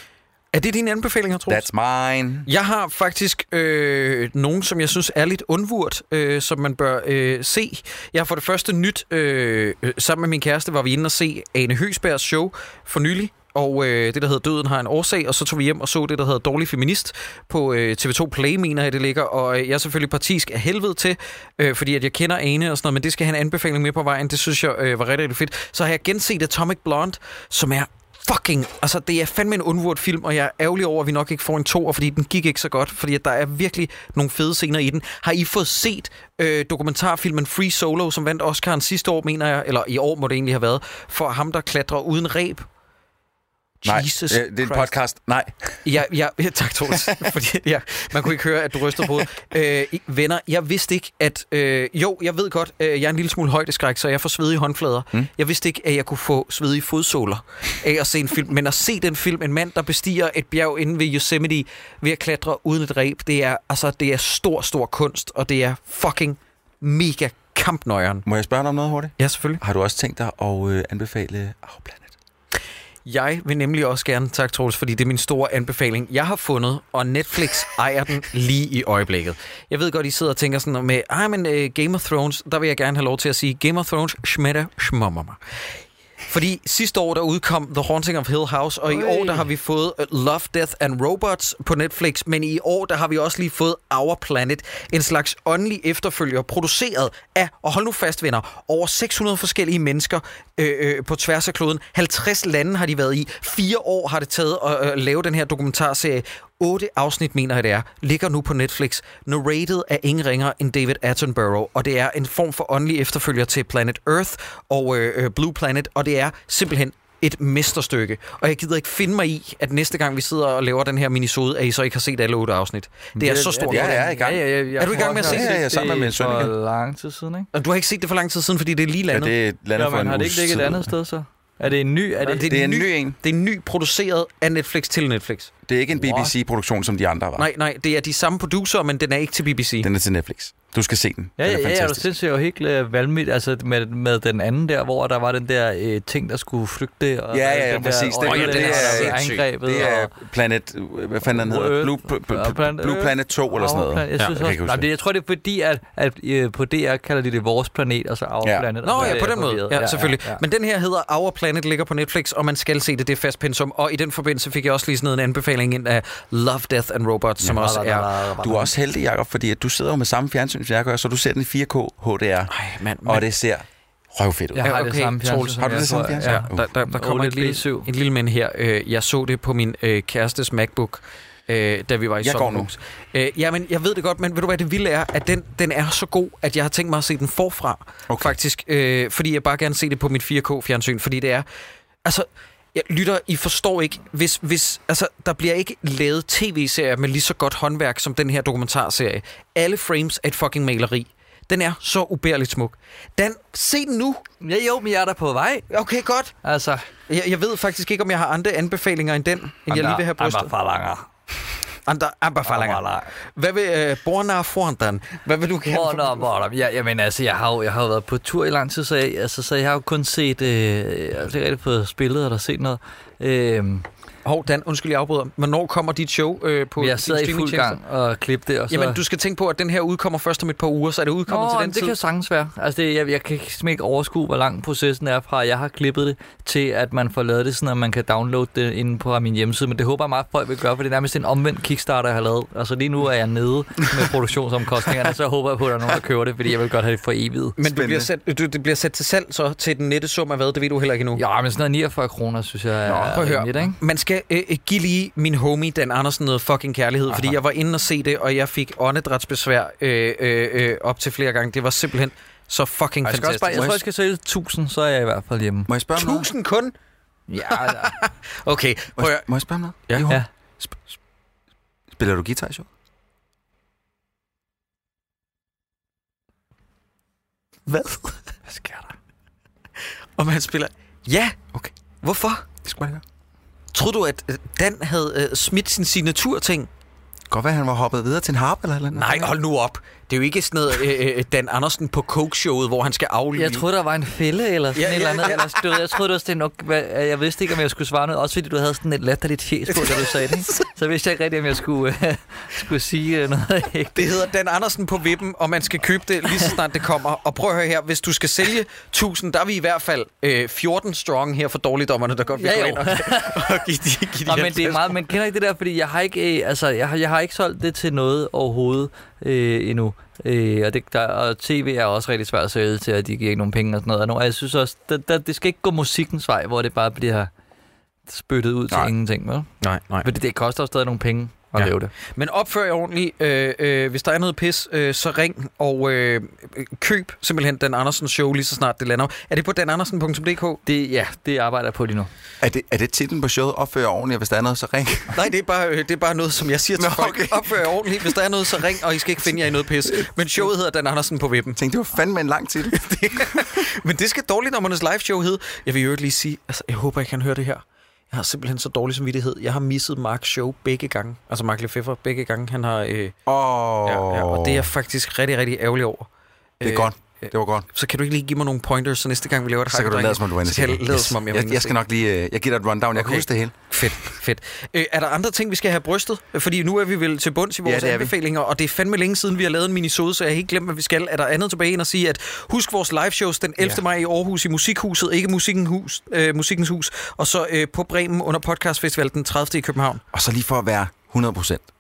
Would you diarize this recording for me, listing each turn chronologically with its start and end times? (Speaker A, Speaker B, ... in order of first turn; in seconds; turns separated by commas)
Speaker A: 0.5-1.7, Speaker B: 1.5-2.5, Speaker A: 2.5-42.7, Speaker A: 43.8-45.0, Speaker B: 43.9-45.8, Speaker A: 45.8-68.2, Speaker B: 68.2-72.1, Speaker A: 69.2-69.6, Speaker A: 73.1-85.4, Speaker A: 86.3-124.1, Speaker C: 88.9-89.5, Speaker C: 123.2-127.5, Speaker B: 123.7-126.5, Speaker A: 124.8-126.5, Speaker A: 127.5-129.3, Speaker B: 129.1-130.9, Speaker C: 129.8-132.5, Speaker A: 132.2-135.5, Speaker B: 132.5-133.2, Speaker B: 135.7-137.5, Speaker C: 136.0-136.3, Speaker A: 137.4-139.9, Speaker B: 139.8-142.1, Speaker C: 141.4-150.1, Speaker B: 147.3-154.9, Speaker A: 148.2-149.4, Speaker C: 151.3-160.4, Speaker B: 158.4-159.2, Speaker A: 158.8-168.1, Speaker C: 167.4-168.7, Speaker B: 168.4-172.5, Speaker A: 172.5-173.3, Speaker B: 173.0-174.8, Speaker C: 174.6-177.9, Speaker A: 174.6-191.4, Speaker B: 175.5-176.7, Speaker B: 182.2-182.7, Speaker B: 188.1-188.4, Speaker A: 192.1-204.2, Speaker C: 204.4-205.7, Speaker A: 205.7-206.3, Speaker C: 206.4-206.9, Speaker A: 207.1-210.5, Speaker C: 209.7-211.1, Speaker A: 211.9-216.3, Speaker C: 212.5-213.1, Speaker C: 215.7-223.9, Speaker A: 224.2-227.8, Speaker C: 226.8-229.0, Speaker A: 228.7-232.0, Speaker C: 231.3-247.6, Speaker A: 247.6-251.2, Speaker B: 247.7-248.1, Speaker C: 251.2-253.8, Speaker B: 252.9-253.2, Speaker A: 253.2-263.8, Speaker C: 263.1-265.7, Speaker B: 263.5-263.8, Speaker B: 265.7-266.3, Speaker A: 266.0-266.7, Speaker C: 267.3-268.0, Speaker A: 267.5-269.3, Speaker B: 269.0-270.9, Speaker A: 269.9-270.1, Speaker B: 271.9-272.7, Speaker A: 277.7-278.3, Speaker C: 278.5-278.9, Speaker A: 280.2-282.5, Speaker B: 282.6-283.0, Speaker A: 283.7-286.7, Speaker B: 287.3-289.3, Speaker A: 288.9-293.7, Speaker C: 293.4-304.1, Speaker A: 294.8-295.8, Speaker A: 299.7-300.7, Speaker A: 303.9-315.0, Speaker C: 312.4-313.6, Speaker C: 314.3-327.3, Speaker C: 328.1-329.5, Speaker A: 329.6-330.1, Speaker C: 330.0-331.9, Speaker A: 331.6-340.6, Speaker C: 340.6-342.1, Speaker B: 342.4-345.2, Speaker A: 345.1-351.6, Speaker B: 346.8-348.2, Speaker B: 351.6-353.7, Speaker A: 352.8-363.1, Speaker B: 363.3-364.7, Speaker A: 363.9-366.1, Speaker A: 366.6-371.8, Speaker B: 366.6-367.7, Speaker B: 369.7-373.8, Speaker A: 373.0-390.0, Speaker B: 377.6-378.1, Speaker B: 390.1-391.7